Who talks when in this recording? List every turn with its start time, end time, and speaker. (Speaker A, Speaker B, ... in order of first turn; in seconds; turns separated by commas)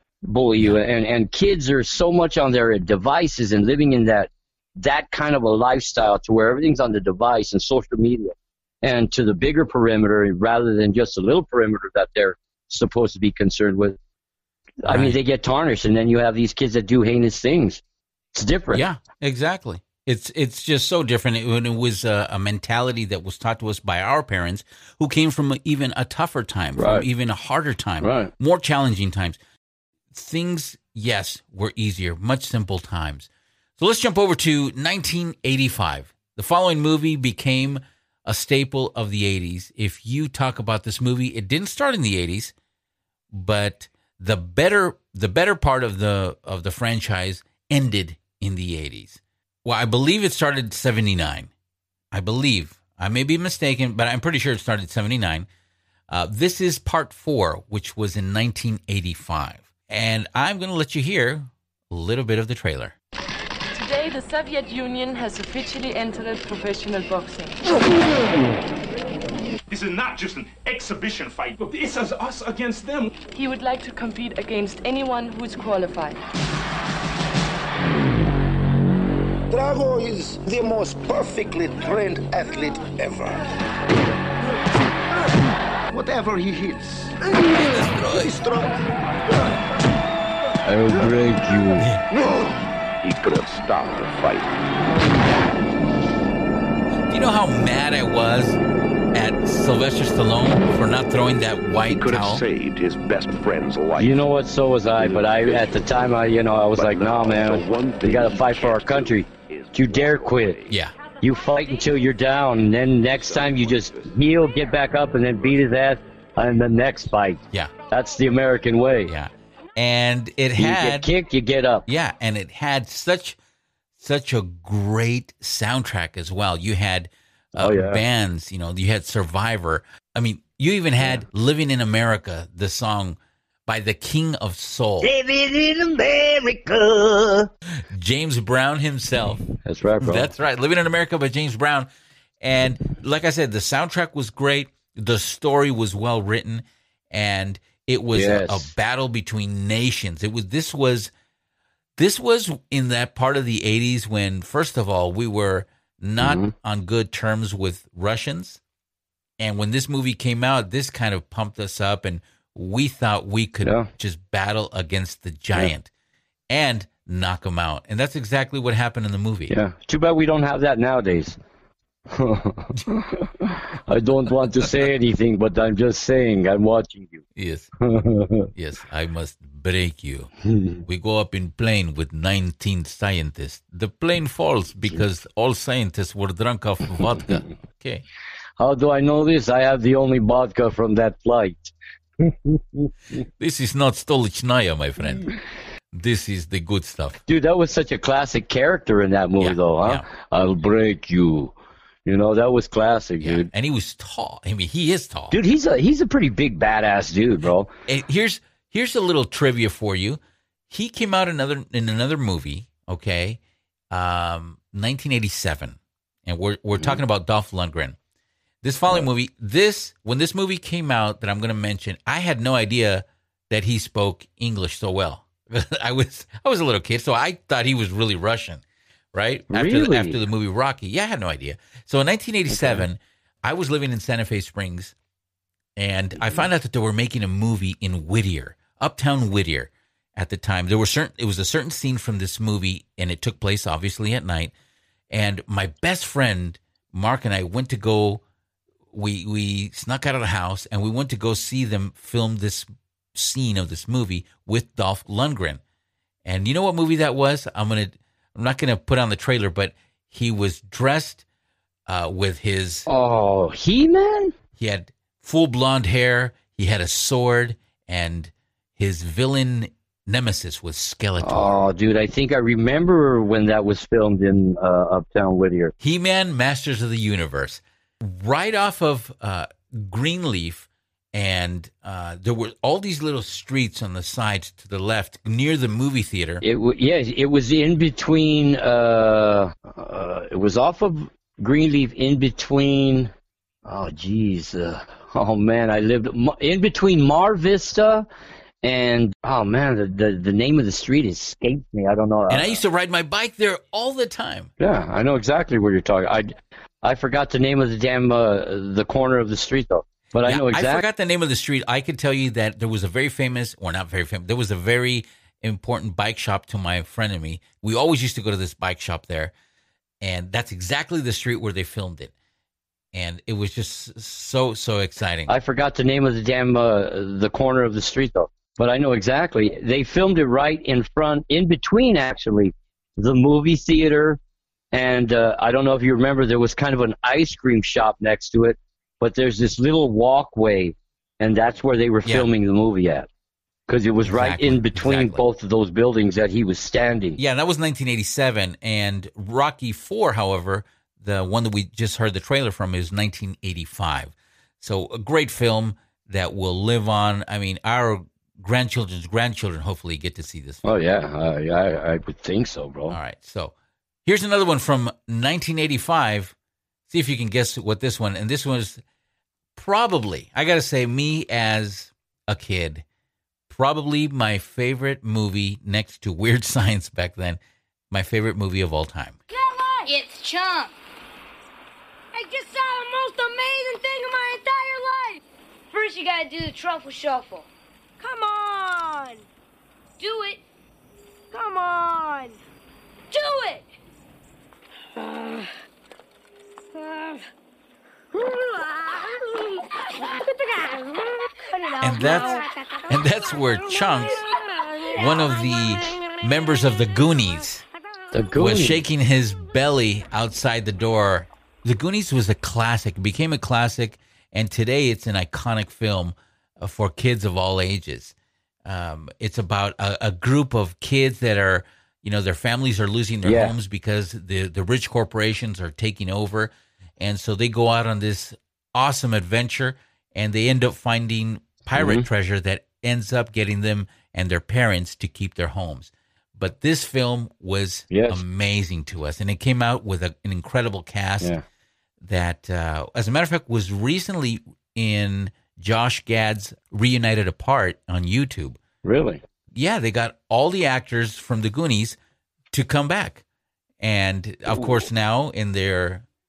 Speaker A: 0.2-14.0, Speaker A: 14.8-17.8, Speaker B: 14.8-15.2, Speaker A: 18.4-18.8, Speaker B: 18.7-29.4, Speaker A: 26.8-27.1, Speaker A: 28.0-28.3, Speaker B: 30.1-42.5, Speaker B: 43.3-51.5, Speaker B: 52.1-55.5, Speaker B: 56.1-63.0, Speaker C: 63.7-67.7, Speaker D: 69.7-73.1, Speaker C: 73.3-76.2, Speaker E: 79.5-83.4, Speaker E: 85.9-87.0, Speaker B: 87.5-88.4, Speaker E: 88.3-88.7, Speaker A: 90.7-91.9, Speaker F: 93.0-94.5, Speaker B: 97.1-98.6, Speaker B: 99.1-102.5, Speaker F: 101.8-104.3, Speaker A: 104.0-110.6, Speaker F: 104.9-105.9, Speaker F: 106.7-110.7, Speaker B: 110.7-110.9, Speaker A: 111.2-119.1, Speaker F: 113.1-114.1, Speaker B: 119.1-121.1, Speaker A: 120.6-121.9, Speaker B: 121.9-123.4, Speaker B: 124.0-135.1, Speaker A: 127.6-128.0, Speaker A: 135.0-137.5, Speaker B: 137.9-139.4, Speaker A: 139.6-140.3, Speaker B: 140.0-141.9, Speaker B: 142.4-151.1, Speaker A: 148.1-148.7, Speaker B: 152.0-158.6, Speaker A: 156.2-156.5, Speaker B: 159.4-165.9, Speaker A: 163.6-163.9, Speaker B: 166.5-169.5, Speaker A: 169.5-171.4, Speaker A: 172.1-177.2, Speaker B: 177.4-177.7, Speaker A: 177.8-178.5, Speaker B: 178.6-180.3, Speaker A: 180.5-180.8, Speaker B: 180.9-188.0, Speaker A: 187.1-187.4, Speaker A: 188.6-192.9, Speaker B: 193.4-195.3, Speaker B: 195.9-197.2, Speaker A: 197.3-201.5, Speaker B: 199.4-200.1, Speaker A: 202.1-203.5, Speaker B: 203.2-205.4, Speaker A: 205.3-207.7, Speaker B: 207.9-213.4, Speaker B: 213.9-218.0, Speaker B: 218.6-228.6, Speaker B: 229.1-234.9, Speaker A: 229.5-230.2, Speaker A: 232.5-232.9, Speaker B: 235.8-244.5, Speaker B: 245.1-248.2, Speaker B: 248.9-255.6, Speaker B: 256.2-261.2, Speaker B: 261.9-262.9, Speaker A: 262.9-264.3, Speaker B: 264.6-271.6, Speaker A: 271.2-275.7, Speaker B: 275.8-286.4, Speaker A: 286.4-293.1, Speaker A: 293.6-298.1, Speaker A: 298.6-302.6, Speaker B: 302.3-304.5, Speaker A: 304.6-306.3, Speaker A: 306.8-310.8, Speaker B: 310.2-319.3, Speaker B: 320.0-322.1, Speaker B: 322.9-325.3, Speaker A: 325.3-334.2, Speaker A: 334.7-343.1, Speaker A: 343.7-347.2, Speaker B: 344.1-345.2, Speaker B: 347.2-360.7, Speaker A: 360.6-363.0, Speaker B: 362.9-363.5, Speaker B: 364.1-366.3, Speaker B: 366.9-368.8, Speaker B: 369.6-372.8, Speaker B: 373.5-377.4, Speaker B: 377.9-379.2, Speaker G: 379.3-380.2, Speaker G: 382.2-385.2, Speaker G: 388.0-389.2, Speaker G: 391.3-392.4, Speaker G: 393.1-393.6, Speaker B: 401.8-404.2, Speaker B: 404.9-407.6, Speaker A: 408.1-408.8, Speaker B: 408.4-441.3, Speaker A: 423.2-423.5, Speaker A: 431.8-432.1, Speaker A: 437.9-438.2, Speaker B: 442.0-448.6, Speaker A: 448.8-449.2, Speaker B: 449.5-452.0, Speaker B: 452.5-453.2, Speaker B: 453.8-456.1, Speaker A: 454.5-454.8